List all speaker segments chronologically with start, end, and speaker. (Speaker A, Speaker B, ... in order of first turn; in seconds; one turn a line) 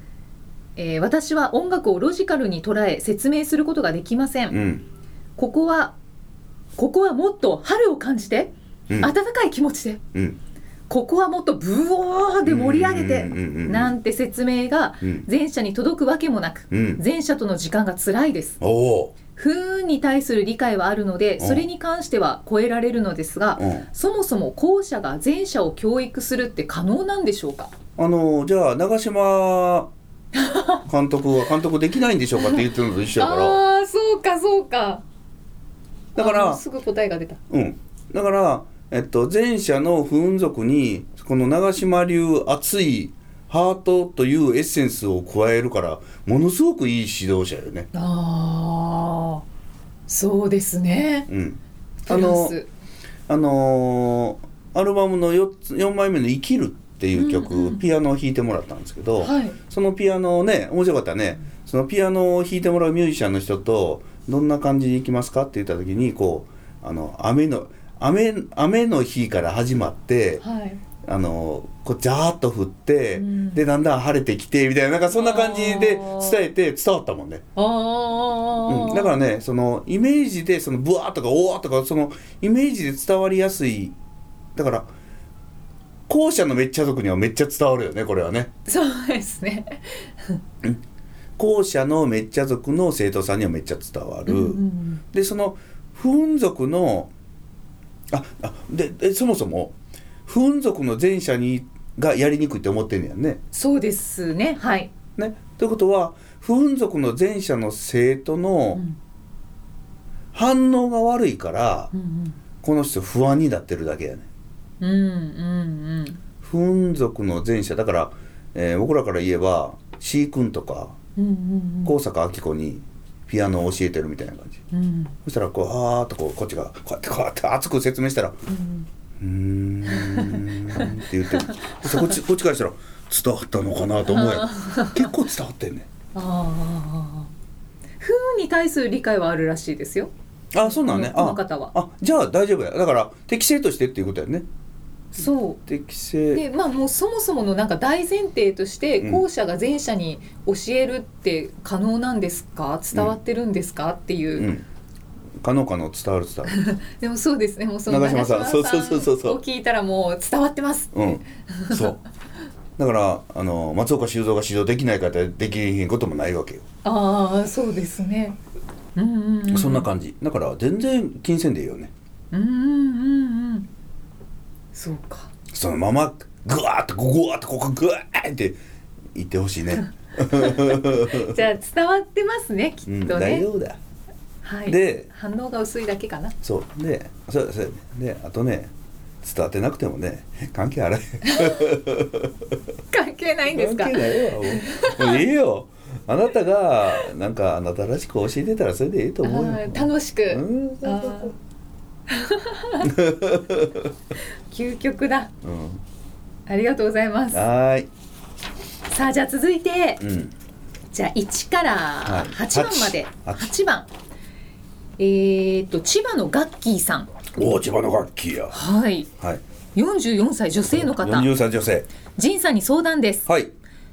Speaker A: 0.8-4.6
Speaker B: 4.5-4.8
Speaker A: 5.4-6.0
Speaker A: 6.8-10.0
Speaker A: 10.9-18.6
Speaker B: 12.4-13.9
Speaker B: 15.0-15.3
Speaker B: 16.7-17.0
Speaker B: 18.6-19.1
Speaker A: 19.3-27.7
Speaker B: 21.4-21.6
Speaker B: 23.6-23.9
Speaker B: 28.0-29.9
Speaker A: 30.4-30.8
Speaker B: 30.9-33.6
Speaker A: 32.4-35.0
Speaker B: 36.1-36.6
Speaker A: 36.1-37.4
Speaker B: 37.5-47.9
Speaker A: 47.9-49.4
Speaker A: 50.1-51.3
Speaker B: 51.3-52.5
Speaker A: 52.0-52.7
Speaker B: 53.3-70.4
Speaker A: 57.1-57.8
Speaker A: 59.2-59.6
Speaker A: 70.4-70.8
Speaker B: 71.0-77.4
Speaker A: 73.2-73.6
Speaker A: 75.1-76.4
Speaker A: 77.5-79.2
Speaker B: 78.7-83.9
Speaker B: 84.5-84.9
Speaker B: 86.1-88.5
Speaker A: 88.7-90.4
Speaker B: 91.4-97.1
Speaker A: 94.2-95.0
Speaker B: 98.1-99.7
Speaker B: 100.2-103.4
Speaker A: 103.5-104.9
Speaker B: 105.2-108.8
Speaker A: 108.7-109.0
Speaker B: 110.3-111.9
Speaker A: 111.9-112.4
Speaker B: 112.6-114.3
Speaker A: 114.8-116.2
Speaker B: 116.4-121.0
Speaker A: 121.2-121.9
Speaker B: 121.8-124.6
Speaker A: 124.7-125.2
Speaker B: 125.2-128.4
Speaker A: 128.5-128.9
Speaker B: 129.2-135.9
Speaker A: 129.9-132.1
Speaker A: 134.1-135.1
Speaker A: 136.1-137.3
Speaker A: 138.0-140.1
Speaker B: 140.5-144.4
Speaker A: 140.6-141.7
Speaker A: 145.1-145.6
Speaker B: 145.7-146.4
Speaker A: 146.3-154.5
Speaker B: 149.0-149.2
Speaker B: 154.3-154.6
Speaker B: 155.4-156.6
Speaker A: 156.5-161.9
Speaker B: 157.9-159.4
Speaker B: 160.9-162.0
Speaker B: 162.8-166.6
Speaker A: 166.8-168.4
Speaker A: 168.9-169.9
Speaker B: 169.5-171.9
Speaker A: 172.3-173.7
Speaker A: 174.7-175.3
Speaker B: 175.5-178.6
Speaker B: 179.1-181.4
Speaker A: 180.2-183.5
Speaker B: 182.9-183.8
Speaker A: 184.4-186.3
Speaker B: 184.7-185.1
Speaker B: 186.4-192.3
Speaker A: 191.2-191.6
Speaker A: 192.9-195.2
Speaker B: 193.4-201.3
Speaker A: 199.2-201.3
Speaker A: 202.1-202.9
Speaker B: 202.8-203.9
Speaker A: 204.5-205.3
Speaker B: 205.4-205.8
Speaker A: 206.5-207.4
Speaker B: 207.3-207.9
Speaker A: 208.9-210.0
Speaker B: 210.0-210.3
Speaker A: 210.9-213.9
Speaker B: 212.0-213.5
Speaker A: 215.0-217.2
Speaker B: 217.3-218.6
Speaker A: 218.5-219.1
Speaker A: 219.7-221.3
Speaker B: 220.6-221.9
Speaker A: 222.2-223.3
Speaker B: 223.2-223.5